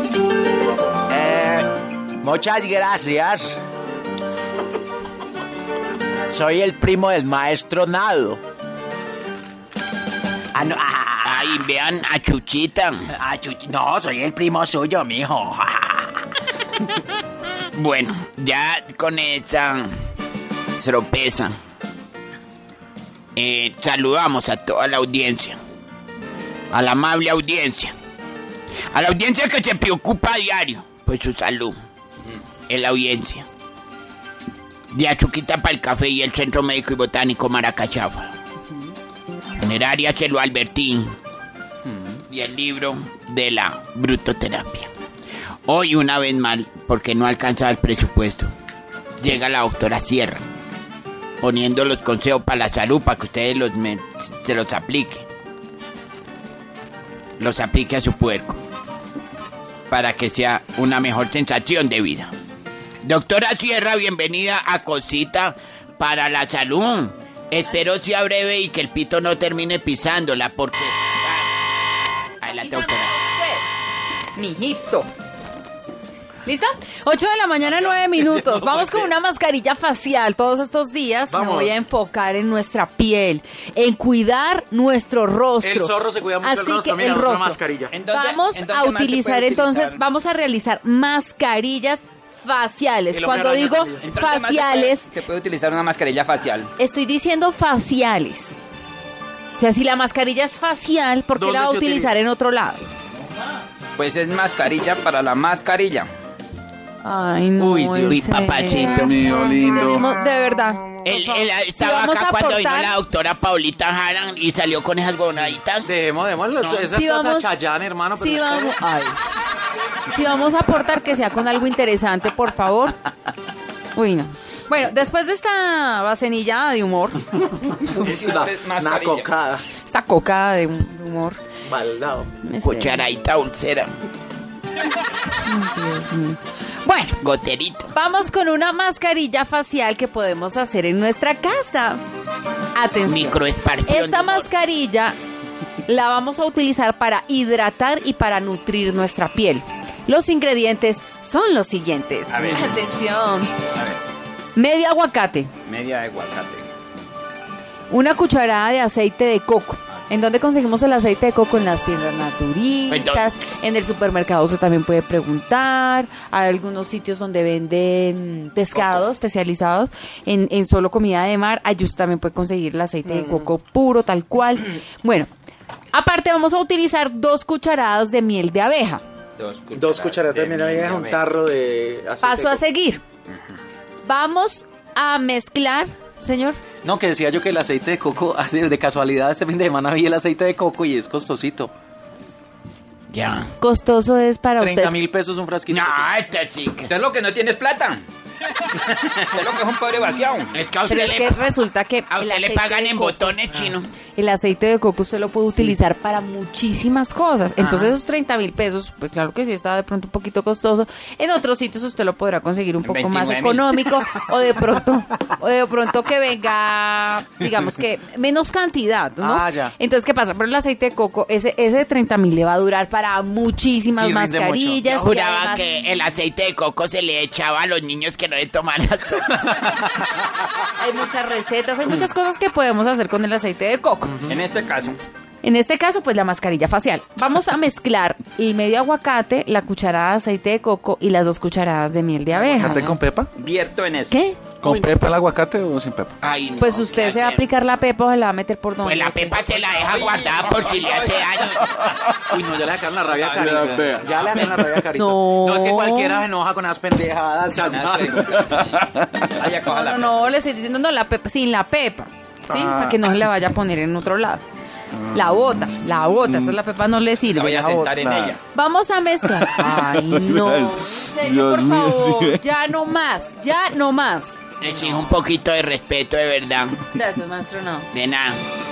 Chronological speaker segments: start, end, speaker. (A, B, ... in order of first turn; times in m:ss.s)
0:01.1-0:03.6 A
0:06.3-0:08.4 A
0:10.5-0:11.7 A
0:11.2-0:13.1 B
0:13.1-0:16.3 A
0:17.7-0:19.9 B
0:20.8-0:21.5 B
0:23.4-0:25.6 B
0:26.7-0:27.9 B
0:28.9-0:31.8 B
0:32.7-0:33.4 B
0:34.9-0:38.3 B
0:39.6-0:41.1 B
0:42.3-0:44.9 B
0:45.7-0:48.5 B
0:49.2-0:50.4 B
0:51.4-0:55.2 B
0:57.4-0:58.6 B
0:59.9-1:02.3 B
1:03.0-1:11.5 B
1:12.4-1:13.1 B
1:12.4-1:13.6 C
1:14.4-1:15.1 C
1:16.4-1:35.1 C
1:18.1-1:19.1 D
1:21.3-1:21.7 D
1:25.6-1:27.9 D
1:27.9-1:30.0 E
1:33.1-1:34.1 D
1:34.0-1:36.7 E
1:36.8-1:38.6 C
1:39.6-1:42.8 C
1:41.3-1:42.1 D
1:44.0-1:46.1 E
1:47.0-1:52.9 C
1:47.6-1:48.2 D
1:48.1-1:49.2 B
1:48.8-1:50.0 F
1:51.0-1:55.9 B
1:55.8-1:58.7 D
1:56.6-1:56.9 B
1:56.9-1:57.6 C
1:58.1-1:59.2 C
2:00.1-2:03.0 C
2:03.9-2:07.4 C
2:08.0-2:09.3 E
2:08.0-2:09.6 D
2:09.8-2:11.4 C
2:11.6-2:12.3 D
2:12.4-2:13.0 C
2:12.6-2:13.9 B
2:15.4-2:17.2 C
2:17.2-2:17.9 B
2:17.9-2:22.0 C
2:22.7-2:25.1 C
2:23.0-2:24.4 B
2:25.8-2:33.5 C
2:32.3-2:32.7 E
2:33.7-2:34.0 E
2:34.5-2:35.5 C
2:35.6-2:36.6 E
2:37.9-2:55.3 C
2:42.9-2:43.2 B
2:53.1-2:53.4 D
2:55.9-2:59.0 C
2:59.4-3:01.2 E
2:59.8-3:02.6 D
3:02.2-3:03.0 C
3:04.0-3:06.6 C
3:06.8-3:11.7 D
3:13.1-3:13.5 B
3:13.6-3:14.9 C
3:14.6-3:16.1 D
3:15.7-3:16.9 B
3:16.9-3:18.0 E
3:18.7-3:20.6 E
3:20.5-3:21.4 B
3:20.8-3:23.4 C
3:22.1-3:23.9 B
3:24.1-3:45.6 C
3:27.6-3:27.9 D
3:32.8-3:33.8 E
3:39.2-3:39.7 D
3:43.9-3:44.8 D
3:44.8-3:49.8 B
3:50.8-3:54.2 C
3:54.3-3:55.0 E
3:55.4-4:02.8 C
4:02.4-4:03.3 F
4:02.6-4:03.0 D
4:03.4-4:04.1 E
4:04.1-4:04.4 C
4:04.6-4:06.1 F
4:04.6-4:04.9 D
4:06.2-4:07.5 B
4:06.6-4:09.5 C
4:08.8-4:11.7 B
4:09.7-4:11.5 E
4:12.3-4:18.5 D
4:13.1-4:14.4 E
4:13.3-4:14.3 F
4:14.9-4:16.3 C
4:17.6-4:20.3 E
4:18.8-4:19.1 F
4:19.6-4:24.4 C
4:22.5-4:23.2 F
4:24.9-4:25.6 F
4:25.1-4:34.4 C
4:26.2-4:26.5 F
4:27.3-4:28.4 E
4:28.0-4:28.4 F
4:29.4-4:32.4 F
4:34.6-4:36.8 B
4:36.9-4:37.9 C
4:37.9-4:38.4 B